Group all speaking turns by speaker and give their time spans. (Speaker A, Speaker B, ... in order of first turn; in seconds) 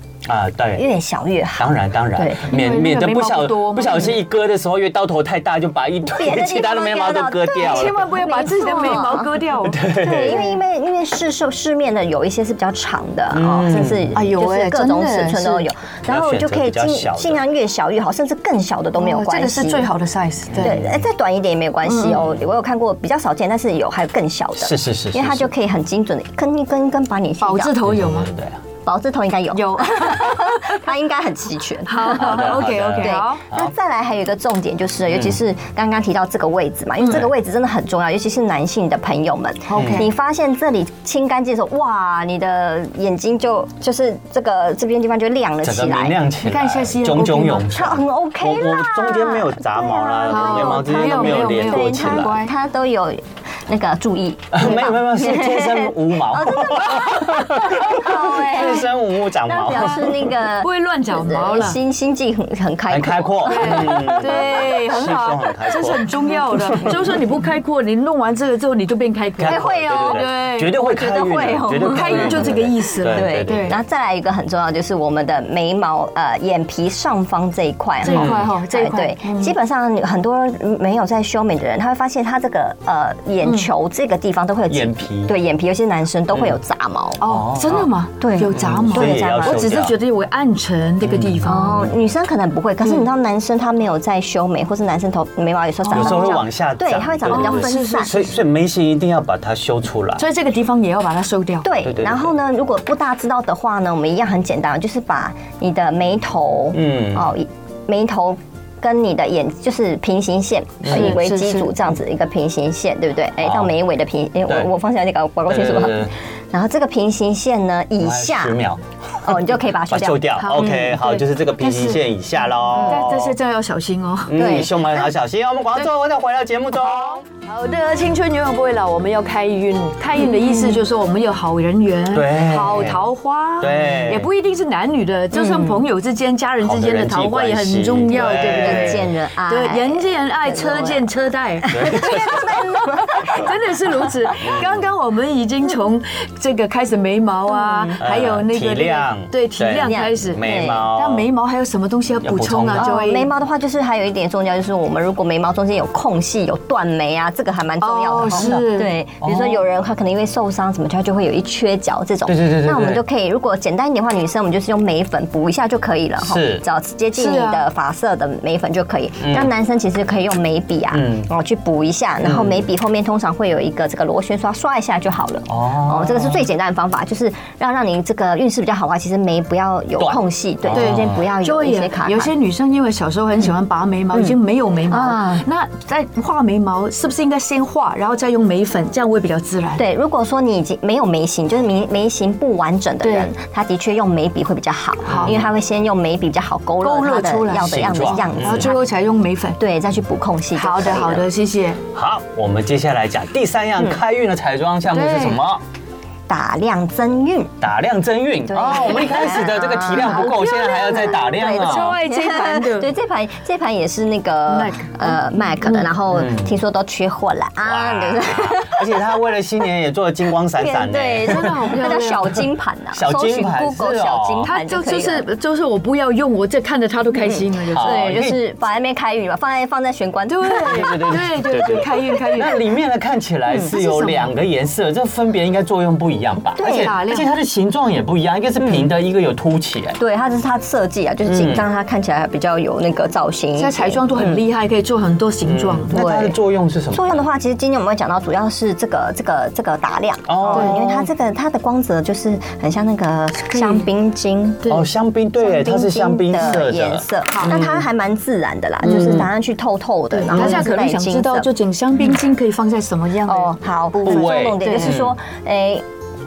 Speaker A: 0.2-0.9, 1.6-8.1, 9.6-10.5, 13.3-14.1, 16.1-17.4, 20.5-21.0, 22.1-22.4, 24.6-25.5, 27.8-28.6, 32.1-33.7, 35.1-35.4, 39.7-40.0, 45.6-52.4, 54.5-60.3, 62.9-67.2, 69.4-73.8, 78.0-78.5, 84.7-85.3, 87.2-87.9, 88.5-90.0, 91.0-92.0, 95.9-100.2, 101.8-102.3, 106.7-107.3, 110.8-111.2, 113.4-113.7, 115.5-116.1, 118.0-123.4, 124.3-127.2, 132.1-133.1, 133.6-134.3, 136.6-139.1, 141.7-142.5, 144.4-144.8, 148.0-151.3, 152.2-152.9, 158.3-159.6, 162.3-163.0, 166.2-166.6, 169.2-169.5, 170.9-171.3, 172.2-172.6, 175.5-176.4, 180.0-181.2, 195.1-195.5, 197.5-198.7, 201.9-205.6, 207.6-212.0, 216.1-216.5, 217.6-221.8, 222.9-224.5, 227.7-228.4, 230.7-240.0, 241.2-241.6, 245.4-247.2, 250.3-251.1, 254.7-257.8, 258.9-259.3, 264.0-265.1
Speaker B: 0.8-2.4, 6.0-9.4, 9.9-19.9, 20.6-27.7, 28.8-46.2, 47.7-58.9, 59.4-64.7, 69.5-89.6, 91.5-98.2, 101.6-118.6, 119.2-120.8, 122.7-123.0, 124.3-125.1, 135.3-135.8, 138.3-141.0, 141.7-143.5, 147.5-148.0, 149.8-150.8, 152.8-182.3, 184.9-185.4, 189.8-198.9, 199.6-201.2, 206.3-207.5, 208.4-219.0, 220.6-225.2, 227.2-231.1, 236.6-236.9, 240.0-244.4, 245.9-246.4, 246.9-254.6, 255.4-261.5, 263.3-265.8
Speaker C: 2.5-4.2, 7.6-10.4, 14.1-15.7, 19.0-20.8, 21.8-22.2, 27.4-28.3, 29.5-30.8, 31.9-33.4, 39.7-40.1, 46.4-47.7, 50.3-52.5, 59.7-60.0, 60.6-61.8, 63.4-70.7, 71.8-73.8, 78.0-79.5, 83.4-83.7, 87.2-91.8, 95.8-96.4, 97.3-98.3, 100.2-101.7, 110.9-111.7, 120.4-122.0, 122.8-124.6, 126.8-142.1, 143.2-150.4, 150.9-153.3, 157.8-158.9, 167.1-167.6, 180.7-189.8, 193.0-193.3, 195.1-195.3, 196.8-199.6, 200.5-201.8, 204.9-205.4, 209.9-212.9, 214.5-215.9, 221.2-222.4, 224.4-228.0, 230.3-232.6, 233.6-234.3, 236.6-237.3, 243.6-245.9, 250.5-250.8, 253.5-253.9, 257.3-257.6, 258.8-259.3, 260.1-265.0